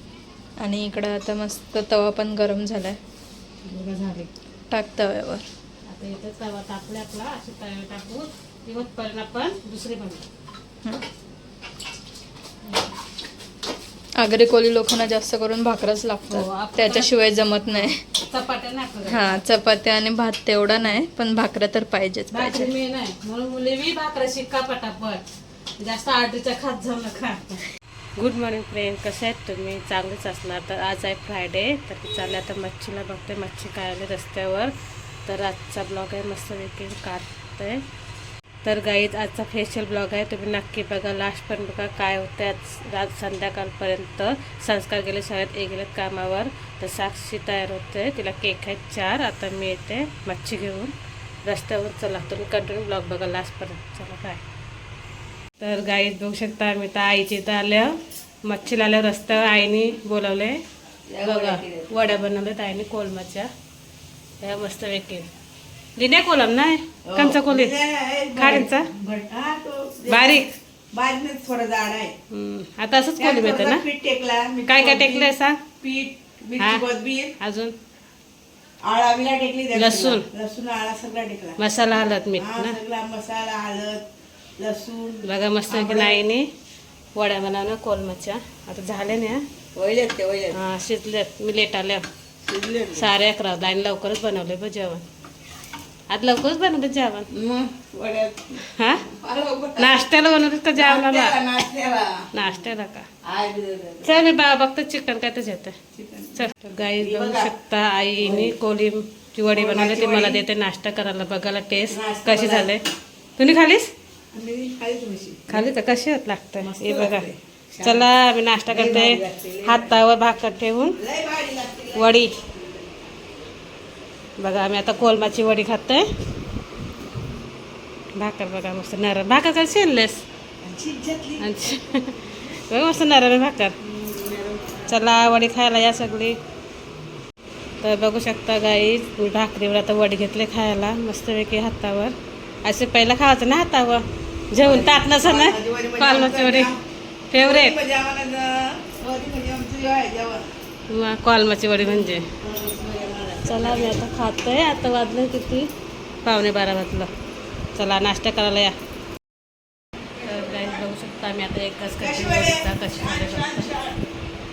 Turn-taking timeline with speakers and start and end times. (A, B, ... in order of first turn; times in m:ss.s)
0:00.6-0:03.0 A
0:03.7-0:04.3 B
0:04.7-0:05.4 A
0:05.9-0:10.2 B
0:14.2-0:18.0 A
0:16.3-0:19.4 B
0:19.0-0:22.7 A
0:22.3-0:25.2 B
0:25.8-0:27.6 B
0:28.2-0:34.7 B
0:35.2-0:37.8 B
0:38.6-0:50.9 B
0:51.4-0:54.4 B
0:55.6-1:00.6 B
1:01.1-1:01.9 C
1:01.2-1:03.5 B
1:04.4-1:05.3 B
1:06.0-1:07.8 B
1:07.1-1:12.1 C
1:08.4-1:08.9 B
1:10.1-1:10.6 B
1:12.3-1:13.9 B
1:13.2-1:17.3 C
1:14.7-1:15.6 B
1:16.6-1:16.9 B
1:17.4-1:17.8 B
1:18.8-1:21.6 C
1:19.8-1:20.3 B
1:21.6-1:22.8 B
1:22.3-1:24.0 C
1:24.6-1:26.2 C
1:25.2-1:26.4 B
1:27.2-1:29.4 B
1:29.8-1:30.6 C
1:30.5-1:32.0 B
1:32.4-1:33.1 C
1:32.9-1:35.0 B
1:36.1-1:37.3 B
1:37.3-1:40.1 C
1:38.8-1:39.0 B
1:39.8-1:41.5 B
1:40.8-1:42.3 C
1:42.3-1:43.1 B
1:43.2-1:44.2 C
1:44.0-1:45.8 B
1:46.0-1:47.5 C
1:46.4-1:52.8 B
1:48.2-1:48.5 C
1:49.5-1:50.4 C
1:51.9-1:52.8 C
1:53.4-1:53.9 B
1:54.3-1:55.7 C
1:55.5-1:57.3 B
1:56.6-1:58.1 C
1:57.8-2:01.0 B
1:58.7-1:59.9 C
2:01.0-2:02.8 C
2:01.9-2:02.4 B
2:04.4-2:06.1 B
2:08.2-2:10.2 B
2:10.6-2:11.8 C
2:11.4-2:13.8 B
2:13.8-2:14.9 C
2:14.9-2:16.4 B
2:17.8-2:26.8 B
2:24.6-2:26.8 C
2:27.3-2:27.8 B
2:27.4-2:30.5 C
2:30.9-2:32.2 B
2:31.9-2:34.0 C
2:33.4-2:35.7 B
2:36.2-2:37.1 B
2:37.8-2:38.8 B
2:40.2-2:40.8 C
2:40.2-2:43.7 B
2:42.0-2:44.1 C